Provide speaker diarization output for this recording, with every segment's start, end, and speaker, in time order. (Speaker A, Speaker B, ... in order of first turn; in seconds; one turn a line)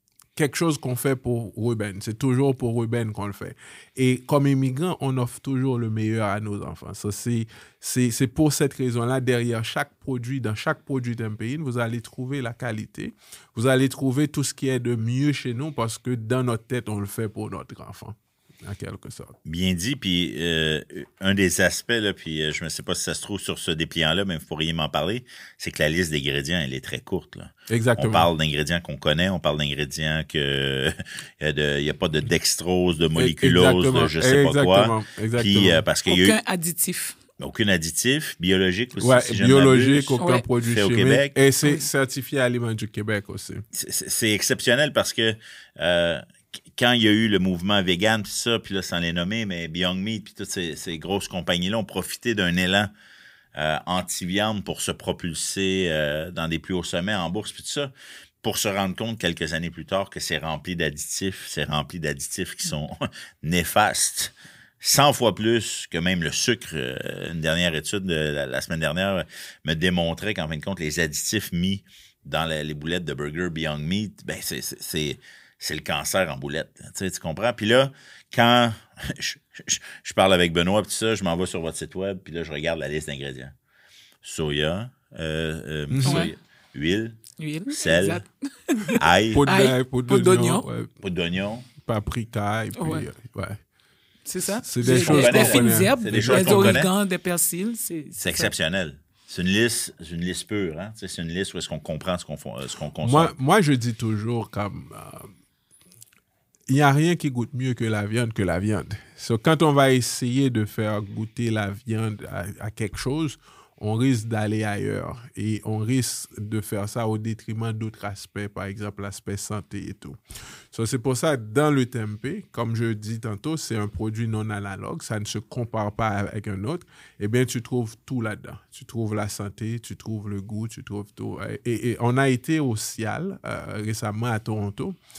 Speaker A: 0.4-19.4
Speaker B: 19.4-36.4
Speaker A: 27.7-28.3
Speaker A: 33.2-35.8
Speaker C: 36.1-37.2
Speaker B: 37.4-41.4
Speaker A: 39.0-43.6
Speaker C: 40.2-40.5
Speaker C: 41.6-41.9
Speaker B: 43.7-46.2
Speaker B: 46.8-52.9
Speaker B: 53.6-57.9
Speaker B: 58.4-83.5
Speaker B: 84.2-88.2
Speaker A: 85.9-86.3
Speaker C: 86.0-86.3
Speaker C: 87.4-90.7
Speaker B: 89.0-89.4
Speaker A: 89.3-90.9
Speaker B: 91.0-91.7
Speaker A: 91.8-93.6
Speaker C: 92.8-93.1
Speaker C: 94.3-98.5
Speaker A: 94.6-96.8
Speaker B: 94.8-96.9
Speaker B: 98.2-103.3
Speaker A: 103.0-105.3
Speaker A: 106.7-120.2
Speaker A: 120.7-135.0